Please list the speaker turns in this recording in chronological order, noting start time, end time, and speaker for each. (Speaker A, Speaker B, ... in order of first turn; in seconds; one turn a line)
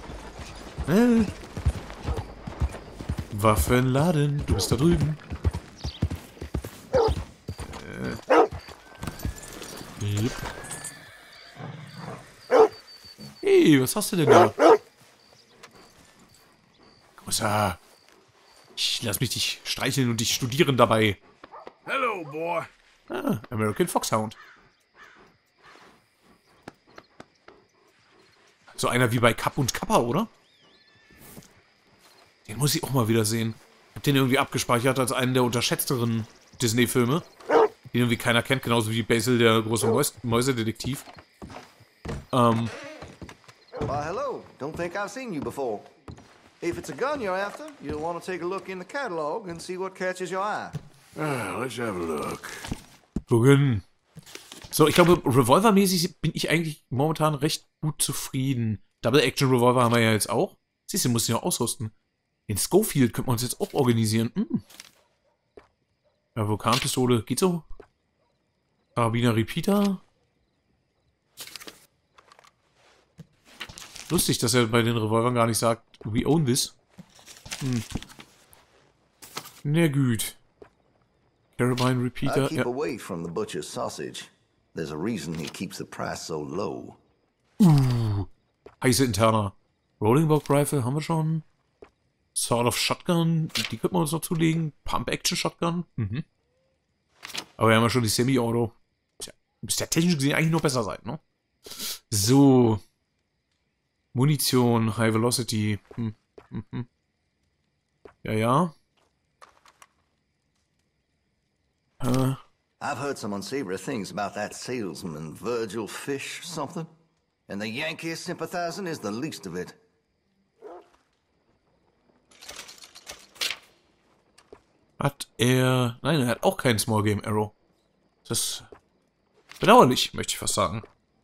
Speaker A: 0.9-1.3
Speaker A: 3.3-5.2
Speaker A: 7.6-8.2
Speaker A: 10.0-10.4
Speaker A: 13.4-14.5
Speaker A: 17.2-17.8
Speaker A: 18.8-21.2
Speaker B: 21.9-22.7
Speaker A: 23.1-24.4
Speaker A: 28.7-30.3
Speaker A: 32.5-37.2
Speaker A: 37.9-41.0
Speaker A: 42.3-42.7
Speaker C: 43.8-45.9
Speaker C: 46.6-50.8
Speaker B: 51.1-52.6
Speaker A: 53.3-53.8
Speaker A: 54.7-61.9
Speaker A: 62.5-64.6
Speaker A: 66.3-67.6
Speaker A: 69.0-70.0
Speaker A: 74.1-76.7
Speaker A: 79.6-80.4
Speaker A: 81.6-82.7
Speaker C: 82.2-87.0
Speaker A: 87.6-88.3
Speaker A: 88.8-91.4
Speaker A: 92.3-96.2
Speaker A: 97.6-102.8
Speaker A: 104.1-106.9
Speaker A: 108.2-108.7
Speaker A: 112.0-112.4
Speaker C: 112.8-116.9
Speaker C: 117.5-119.8
Speaker A: 125.0-127.5
Speaker A: 128.2-128.7
Speaker A: 129.6-130.8